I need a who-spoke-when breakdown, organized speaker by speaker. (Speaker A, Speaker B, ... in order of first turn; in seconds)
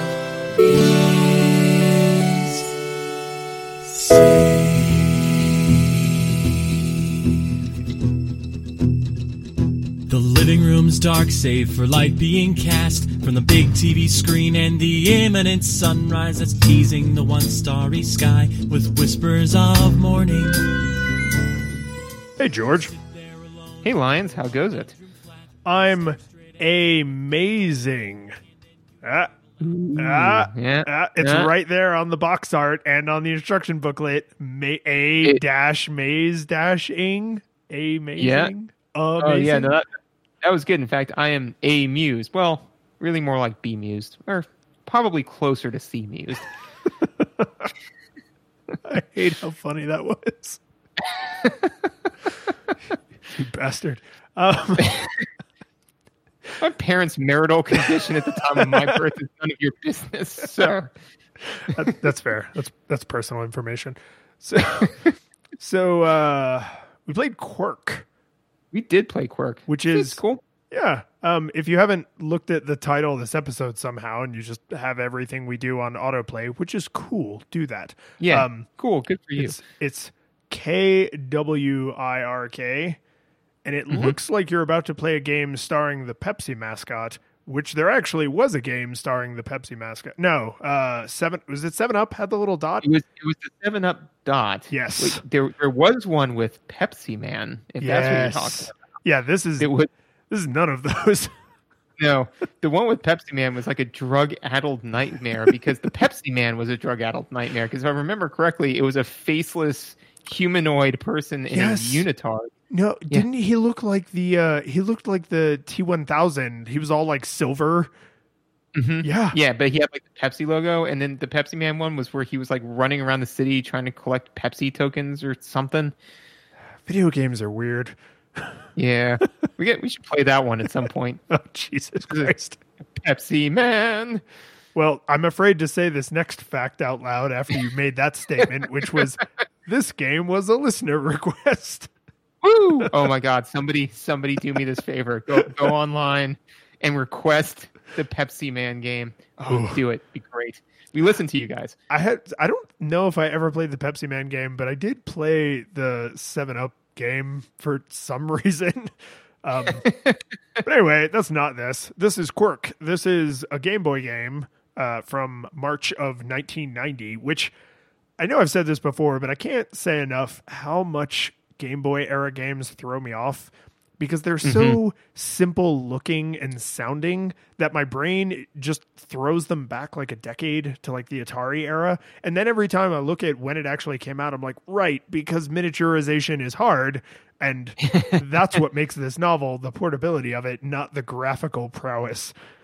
Speaker A: 0.6-2.6, 3.8-5.9, 10.1-21.0, 22.9-26.6
Speaker B: 22.4-22.9, 25.7-28.4, 29.0-29.3, 30.0-39.8, 47.2-47.7, 48.8-50.6, 53.3-55.0, 58.5-59.0, 61.7-68.1, 69.7-70.2, 70.7-78.7, 79.4-83.0, 83.7-92.9, 94.7-95.2, 97.8-99.7, 100.3-101.3, 111.5-112.1, 112.7-117.9, 119.0-119.4, 126.9-128.6, 131.3-132.6, 134.8-141.9, 149.4-149.8, 151.9-159.8, 160.6-167.5, 168.2-192.3
Speaker C: 23.8-24.9, 29.6-31.5, 38.2-38.5, 39.2-39.9, 40.4-46.5, 51.1-51.7, 54.8-55.1, 56.6-60.9, 68.7-70.4, 78.2-79.6, 92.8-98.8, 99.6-99.9, 102.0-112.5, 118.8-125.9, 128.8-131.2, 133.0-134.2, 142.4-151.8, 159.8-160.2, 174.4-174.8, 187.9-188.2